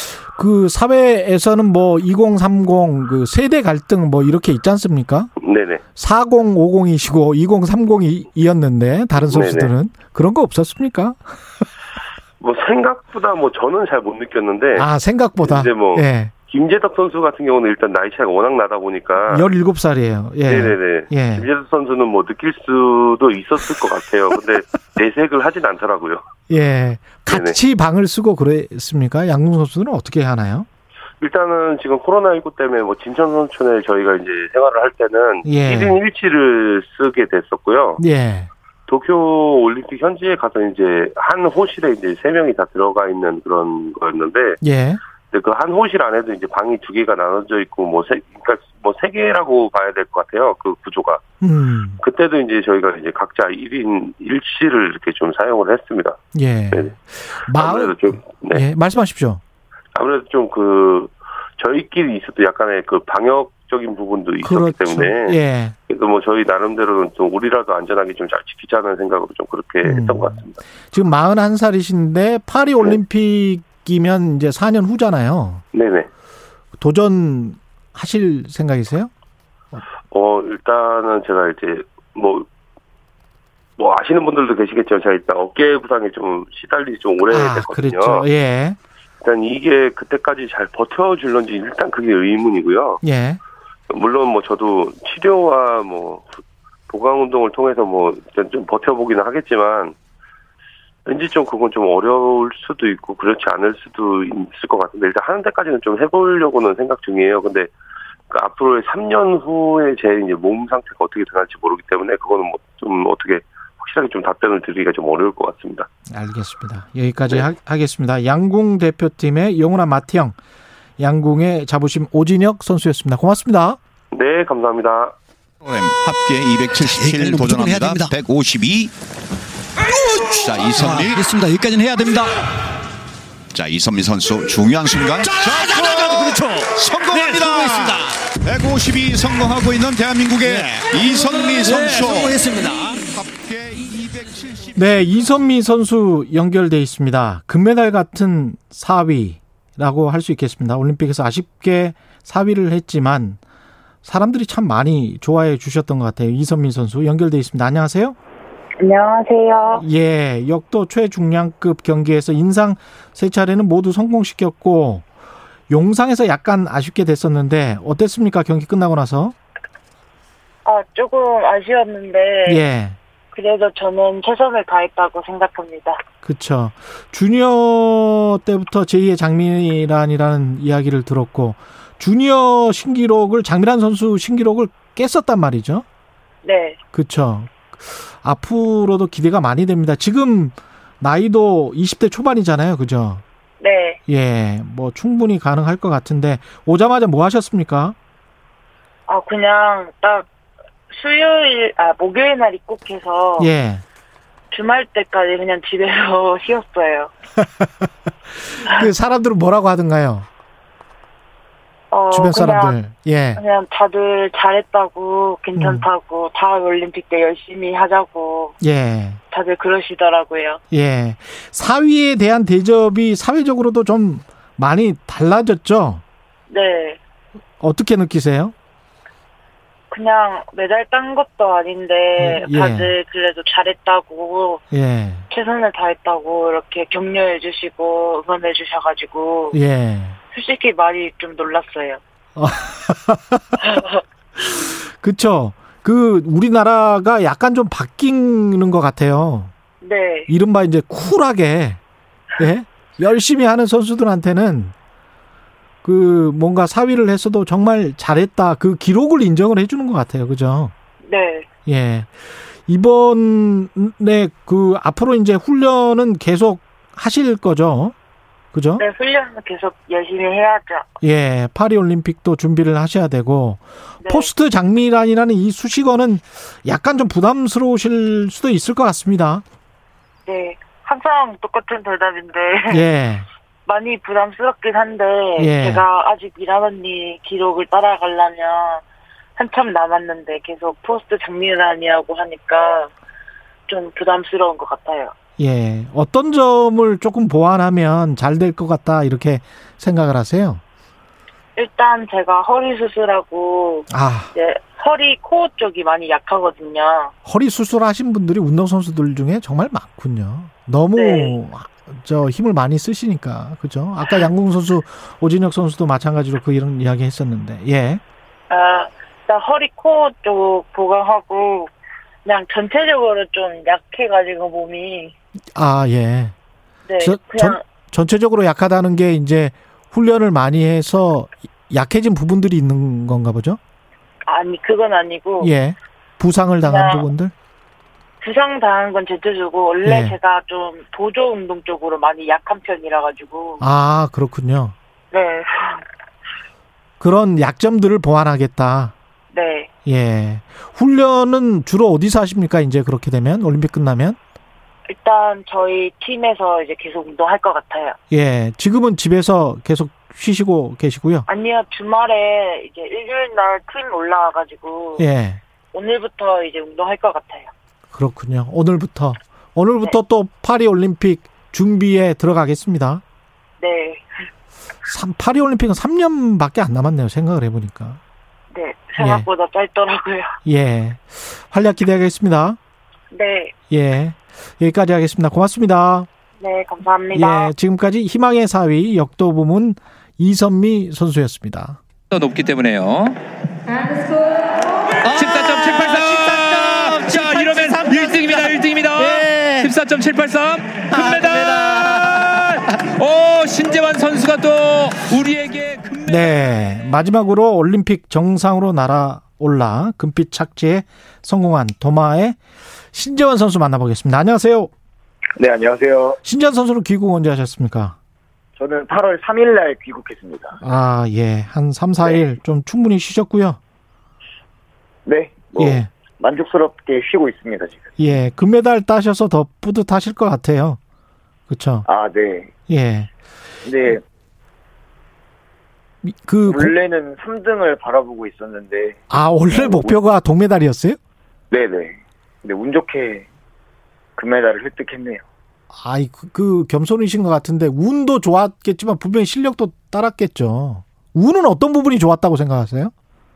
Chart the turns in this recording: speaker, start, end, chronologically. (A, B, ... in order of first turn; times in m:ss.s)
0:00.2-0:05.3 A
0:05.4-0:05.8 B
0:06.0-0:11.2 A
0:09.2-0:09.7 B
0:12.4-0:14.9 B
0:14.7-0:16.3 A
0:15.4-0:19.5 B
0:19.2-0:21.5 A
0:20.5-0:26.2 B
0:26.5-0:30.7 A
0:27.3-0:27.6 B
0:31.2-0:38.0 B
0:35.4-0:36.0 A
0:38.0-0:38.5 A
0:38.9-0:44.6 B
0:44.6-0:45.0 A
0:45.3-0:51.2 B
0:51.4-0:52.0 A
0:52.0-0:56.2 B
0:56.3-0:59.4 A
0:57.5-0:58.6 B
0:59.9-1:05.4 B
1:04.4-1:05.8 A
1:05.9-1:10.6 B
1:09.8-1:10.4 A
1:10.9-1:15.6 A
1:15.7-1:16.1 B
1:16.8-1:19.1 A
1:20.1-1:22.5 B
1:23.8-1:28.3 B
1:27.3-1:28.8 A
1:29.2-1:33.0 B
1:33.0-1:33.4 A
1:33.9-1:36.3 B
1:36.9-1:40.0 B
1:41.1-1:47.7 B
1:48.3-1:55.9 B
1:56.1-2:00.4 A
2:01.0-2:03.8 A
2:04.1-2:05.2 B
2:05.6-2:08.9 C
2:06.9-2:08.1 D
2:10.1-2:11.3 C
2:10.8-2:12.3 D
2:13.5-2:25.0 C
2:15.5-2:18.0 D
2:21.6-2:23.0 D
2:24.8-2:33.4 A
2:34.0-2:38.2 A
2:38.8-2:39.8 E
2:39.7-2:45.1 A
2:45.7-2:49.4 A
2:50.6-2:52.6 E
2:52.4-2:53.0 A
2:53.3-2:56.0 E
2:56.2-3:05.8 A
3:06.4-3:06.8 E
3:06.9-3:13.2 A
3:13.6-3:14.0 E
3:14.1-3:18.0 A
3:19.1-3:20.3 E
3:20.9-3:23.5 E
3:23.4-3:23.8 A
3:24.5-3:27.1 E
3:27.4-3:27.9 A
3:28.4-3:30.3 A
3:28.6-3:28.9 E
3:31.9-3:32.8 E
3:32.1-3:33.4 A
3:33.4-3:38.6 E
3:35.6-3:35.9 A
3:38.6-3:39.2 A
3:39.3-3:40.6 E
3:40.7-3:46.0 A
3:46.5-3:47.0 E
3:47.6-3:48.5 A
3:49.9-3:54.6 E
3:52.2-3:53.0 A
3:54.7-3:55.3 A
3:55.3-3:59.6 E
3:59.5-4:00.2 A
4:00.3-4:02.0 E
4:02.4-4:03.6 A
4:03.6-4:04.0 E
4:04.5-4:09.5 A
4:09.8-4:10.3 E
4:10.3-4:11.8 A
4:12.4-4:14.7 A
4:15.8-4:20.7 A
4:21.0-4:21.5 E
4:21.7-4:22.2 A
4:22.7-4:27.9 A
4:28.5-4:28.8 A
4:28.8-4:30.9 E
4:31.0-4:39.4 A
4:34.0-4:34.3 E
4:40.3-4:42.8 E
4:42.7-4:43.3 A
4:43.7-4:48.8 E
4:45.4-4:45.9 A
4:49.4-4:52.9 E
4:53.7-4:55.1 E
4:55.4-5:00.6 A
5:01.6-5:07.1 E
5:03.9-5:04.3 A
5:07.2-5:18.0 A
5:10.9-5:11.4 E
5:18.5-5:21.7 E
5:22.2-5:25.1 E
5:25.6-5:26.4 A
5:26.9-5:27.6 E
5:27.0-5:33.6 A
5:34.3-5:35.5 E
5:35.4-5:37.3 A
5:36.6-5:37.1 E
5:38.2-5:43.6 E
5:39.8-5:40.2 A
5:43.6-5:44.8 A
5:45.1-5:45.8 E
5:47.0-5:49.0 A
5:49.3-5:49.7 E
5:49.9-5:54.2 A
5:54.9-5:58.0 E
5:58.1-6:01.3 A
6:01.3-6:05.1 E
6:05.0-6:05.4 A
6:05.7-6:07.5 E
6:07.9-6:13.0 A
6:13.6-6:14.1 E
6:14.9-6:18.0 A
6:18.5-6:20.4 E
6:19.0-6:19.3 A
6:20.4-6:22.6 A
6:23.1-6:23.5 E
6:23.7-6:26.1 A
6:26.4-6:27.5 E
6:27.1-6:31.8 A
6:32.1-6:33.2 F
6:35.0-6:46.2 F
6:35.5-6:36.0 D
6:41.3-6:41.7 D
6:46.1-6:52.4 A
6:52.9-6:54.7 A
6:55.4-6:56.2 G
6:56.2-6:58.0 A
6:58.6-7:00.6 G
7:00.6-7:03.6 A
7:05.1-7:07.9 G
7:05.6-7:05.9 A
7:08.0-7:10.8 A
7:11.5-7:11.9 A
7:11.9-7:12.5 G
7:12.7-7:13.1 A
7:13.6-7:14.0 G
7:16.0-7:16.7 A
7:16.5-7:19.0 G
7:19.1-7:21.0 A
7:19.5-7:20.0 G
7:21.5-7:23.3 G
7:24.2-7:25.2 G
7:25.7-7:32.9 A